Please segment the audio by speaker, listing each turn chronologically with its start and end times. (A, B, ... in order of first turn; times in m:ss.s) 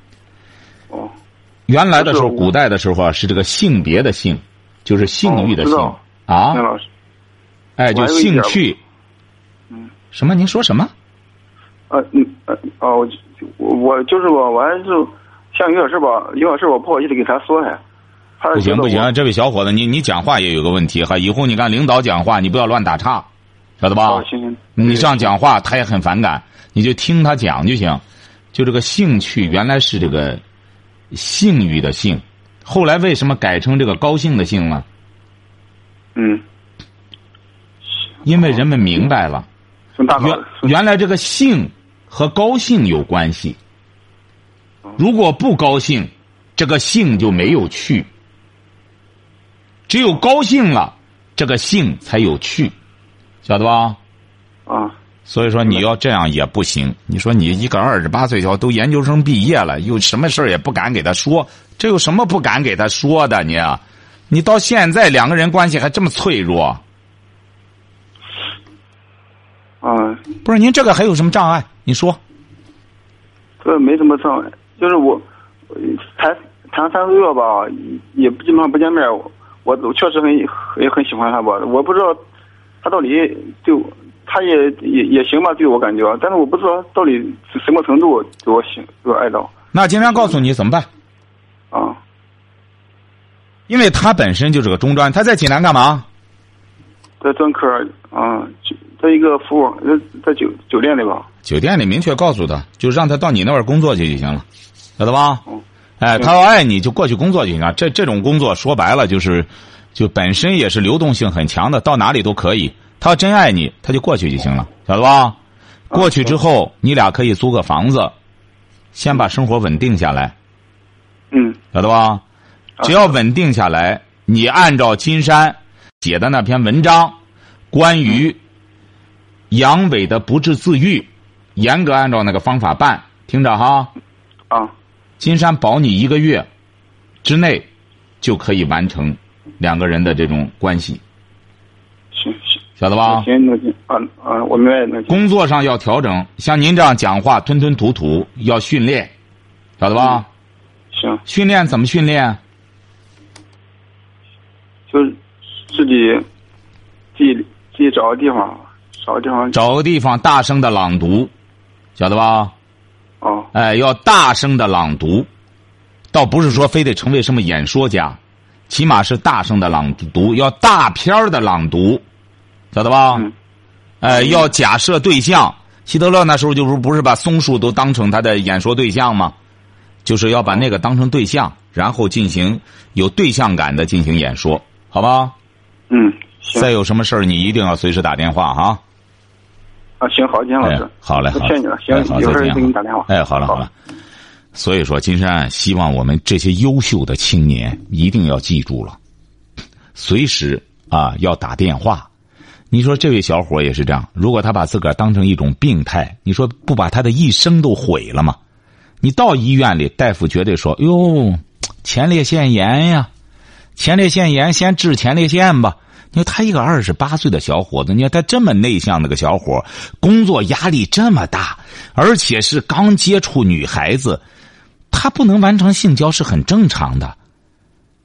0:01.7-0:06.6 A
0:02.0-0:02.5 B
0:05.2-0:06.0 B
0:06.5-0:06.9 B
0:07.8-0:08.8 A
0:07.9-0:08.6 B
0:10.1-0:10.9 A
0:11.9-0:17.8 B
0:18.4-0:19.1 B
0:18.5-0:23.3 A
0:23.8-0:24.2 A
0:24.0-0:25.3 B
0:24.8-0:28.0 A
0:28.5-0:30.4 A
0:31.1-0:34.8 A
0:36.1-0:36.4 B
0:38.2-0:39.5 A
0:40.0-0:40.7 B
0:40.2-0:43.6 A
0:45.0-0:48.1 A
0:49.9-0:52.7 A
0:53.4-0:54.0 A
0:54.7-0:54.9 B
0:55.3-1:06.8 A
1:09.8-1:10.2 B
1:10.4-1:12.2 A
1:13.6-1:22.2 B
1:22.8-1:29.5 B
1:29.7-1:30.9 A
1:31.7-1:32.0 B
1:33.7-1:36.1 A
1:37.2-1:41.3 B
1:41.4-1:44.4 A
1:45.0-1:45.4 A
1:46.0-1:55.4 A
1:55.9-1:58.1 A
1:55.9-1:56.3 B
1:58.9-2:00.3 A
2:01.3-2:01.6 B
2:01.7-2:02.2 A
2:02.8-2:07.2 A
2:07.7-2:08.4 A
2:09.5-2:13.9 A
2:15.2-2:16.5 A
2:17.2-2:17.7 A
2:18.2-2:21.0 A
2:22.1-2:25.2 B
2:22.8-2:23.3 A
2:25.1-2:29.1 A
2:29.8-2:30.2 A
2:30.9-2:31.2 B
2:31.2-2:32.4 A
2:34.9-2:36.2 B
2:37.1-2:39.6 B
2:39.5-2:41.3 A
2:42.0-2:42.5 A
2:43.2-2:43.5 B
2:43.5-2:45.3 A
2:46.1-2:48.2 A
2:48.7-2:52.0 A
2:52.7-2:53.3 A
2:54.0-2:59.3 A
3:00.0-3:05.3 A
3:05.9-3:06.7 B
3:06.5-3:08.8 A
3:10.0-3:13.6 B
3:10.6-3:13.7 A
3:14.5-3:19.0 A
3:19.9-3:22.1 A
3:22.7-3:28.4 A
3:29.0-3:33.1 A
3:33.8-3:44.2 A
3:44.9-3:47.2 A